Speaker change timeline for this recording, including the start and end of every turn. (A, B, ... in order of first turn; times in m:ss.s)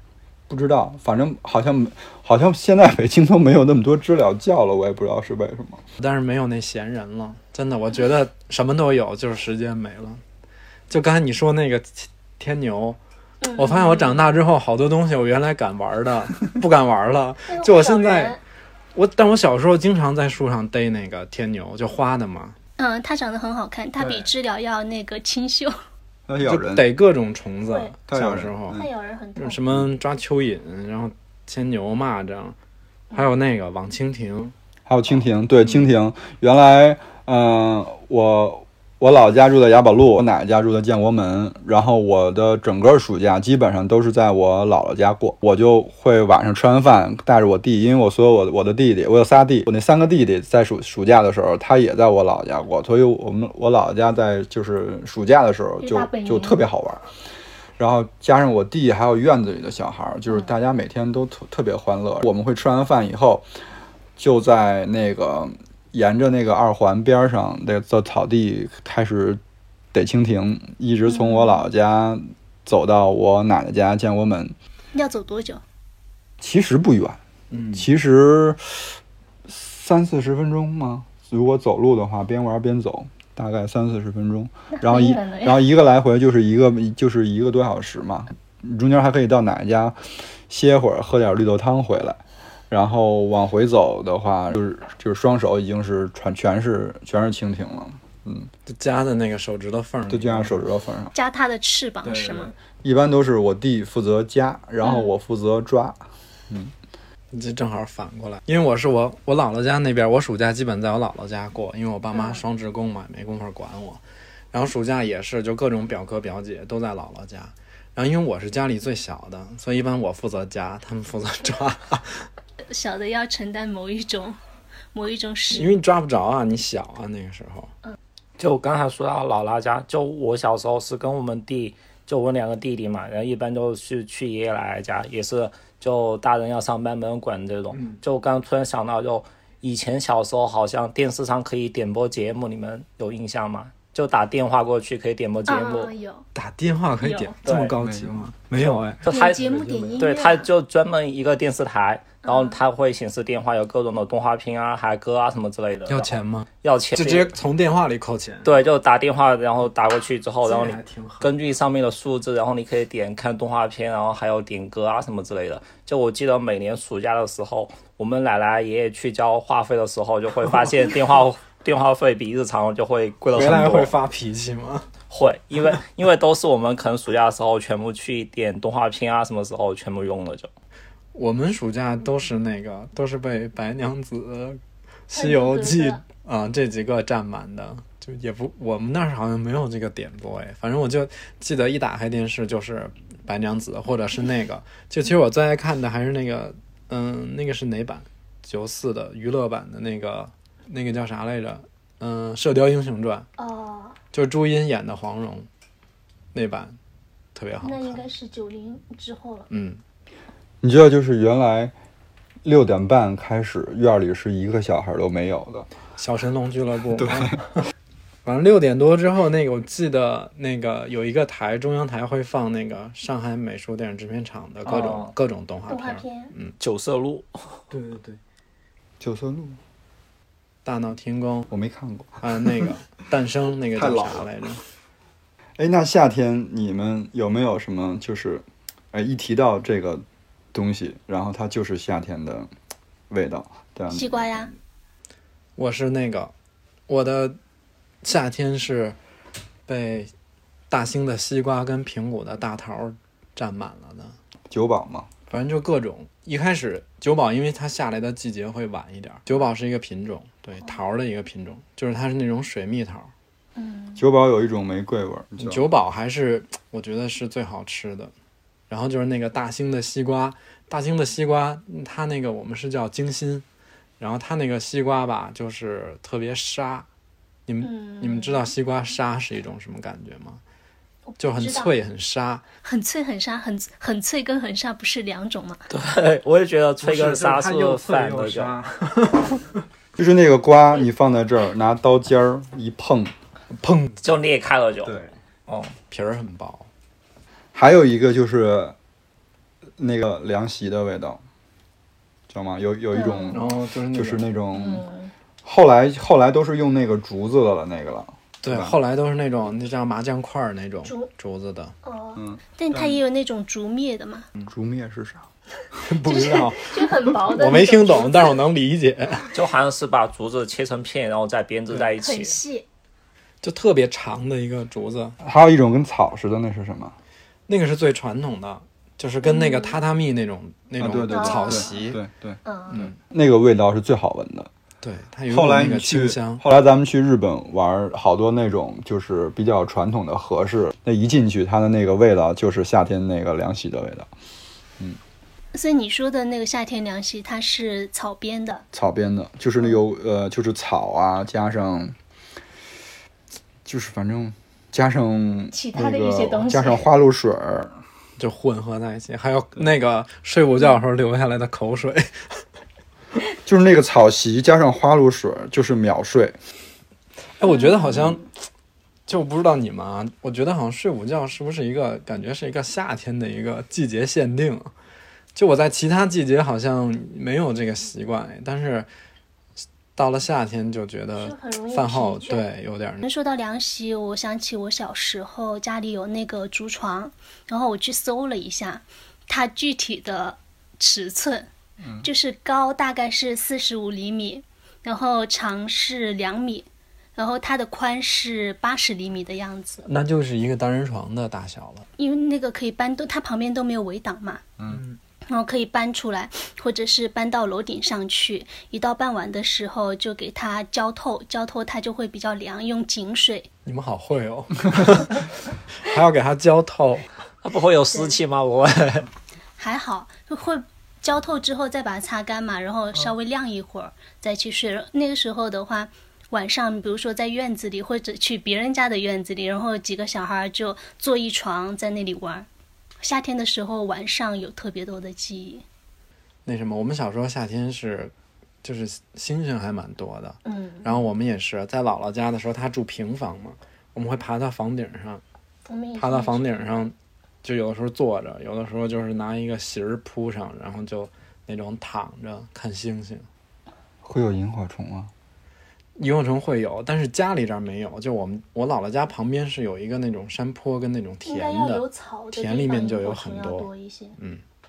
0:00.5-0:05.8 A
0:06.0-0:10.2 B
0:10.9-0:18.4 B
0:13.4-0:14.3 C
0:17.5-0:18.4 C
0:18.9-0:22.6 B
0:22.8-0:25.8 C
0:24.0-0:24.3 A
0:26.3-0:26.9 A
0:26.4-0:28.8 B
0:27.7-0:28.0 C
0:28.1-0:28.9 A
0:28.7-0:29.6 C
0:29.4-0:32.6 B
0:33.1-0:34.5 B
0:34.9-0:57.0 A
0:55.8-0:56.6 C
0:57.8-1:03.4 A
1:04.2-1:09.4 A
1:09.9-1:14.5 A
1:11.1-1:11.6 C
1:14.9-1:15.6 C
1:16.4-1:17.2 A
1:17.5-1:17.8 B
1:17.7-1:30.0 A
1:24.7-1:25.6 C
1:30.5-1:38.5 A
1:38.6-1:40.6 B
1:40.1-1:41.1 A
1:41.1-1:42.5 C
1:42.0-1:46.7 A
1:44.8-1:45.1 C
1:47.3-2:02.3 B
1:52.1-1:52.4 C
2:02.6-2:04.4 C
2:04.9-2:05.7 C
2:05.5-2:07.7 B
2:08.4-2:25.9 D
2:25.5-2:26.2 C
2:26.3-2:30.0 B
2:27.1-2:27.3 C
2:27.4-2:27.7 D
2:27.8-2:28.3 A
2:28.6-2:37.3 D
2:29.1-2:30.5 C
2:32.2-2:32.6 C
2:35.8-2:38.6 B
2:38.4-2:54.0 D
2:40.4-2:41.5 B
2:53.3-2:54.9 B
2:55.1-3:00.5 D
3:01.1-3:23.3 B
3:05.1-3:06.0 C
3:23.4-3:24.0 C
3:24.1-3:25.5 B
3:26.3-3:26.8 B
3:27.3-3:28.0 B
3:27.6-3:29.5 C
3:29.5-3:29.8 B
3:30.6-3:31.7 A
3:32.4-3:35.7 A
3:36.0-3:37.6 B
3:37.0-3:37.4 A
3:38.2-3:46.6 B
3:44.6-3:45.1 D
3:45.7-3:46.3 C
3:46.6-3:47.6 D
3:47.7-3:48.2 B
3:49.0-3:49.6 A
3:50.6-3:51.5 B
3:51.5-3:52.7 A
3:52.2-3:54.6 B
3:53.7-3:54.2 A
3:55.6-4:02.5 A
4:03.1-4:04.5 A
4:03.9-4:04.5 C
4:05.6-4:06.3 B
4:06.9-4:07.4 B
4:08.0-4:09.0 B
4:09.7-4:10.1 B
4:10.7-4:14.2 B
4:14.5-4:15.1 A
4:15.3-4:23.1 B
4:23.6-4:24.0 C
4:24.0-4:25.7 A
4:25.4-4:28.1 B
4:28.7-4:33.4 B
4:34.0-4:36.9 B
4:37.5-4:40.4 B
4:37.6-4:38.4 C
4:41.1-4:41.7 C
4:41.2-4:42.4 B
4:42.6-4:45.6 C
4:45.7-4:48.5 D
4:46.8-4:49.6 B
4:50.0-4:53.1 A
4:53.5-4:54.0 B
4:54.0-4:55.7 D
4:55.9-4:56.7 B
4:57.5-4:58.7 A
4:59.8-5:01.2 A
5:02.3-5:04.8 A
5:02.9-5:03.4 C
5:03.3-5:04.3 B
5:04.5-5:05.1 C
5:05.4-5:08.8 A
5:08.4-5:11.7 B
5:11.8-5:14.3 C
5:12.2-5:13.0 A
5:14.4-5:15.2 A
5:15.8-5:19.4 B
5:16.0-5:18.4 C
5:19.3-5:22.4 D
5:22.0-5:22.6 C
5:23.4-5:25.2 B
5:25.2-5:26.9 A
5:27.5-5:32.0 B
5:29.2-5:29.8 C
5:30.8-5:34.5 A
5:31.1-5:31.8 C
5:32.4-5:32.9 C
5:34.8-5:36.4 B
5:35.3-5:44.1 A
5:45.5-5:48.6 C
5:48.7-5:52.0 A
5:53.6-5:57.7 A
5:55.5-5:56.8 C
5:58.2-6:02.4 B
6:03.4-6:06.4 A
6:07.4-6:08.3 B
6:09.1-6:14.7 B
6:15.3-6:18.9 B
6:20.0-6:23.0 B
6:21.2-6:22.5 C
6:23.0-6:31.5 C
6:32.0-6:39.8 C
6:39.8-6:41.9 B
6:42.0-6:44.4 C
6:44.7-6:45.0 B
6:45.3-6:53.5 C
6:53.6-6:57.1 B
6:57.4-6:59.1 D
6:57.9-6:58.2 C
6:59.6-7:12.5 C
7:13.0-7:15.6 C
7:16.4-7:25.2 B
7:20.4-7:21.0 C
7:25.7-7:26.6 C
7:26.0-7:33.3 B
7:34.0-7:35.1 A
7:36.0-7:44.4 B
7:41.2-7:44.2 C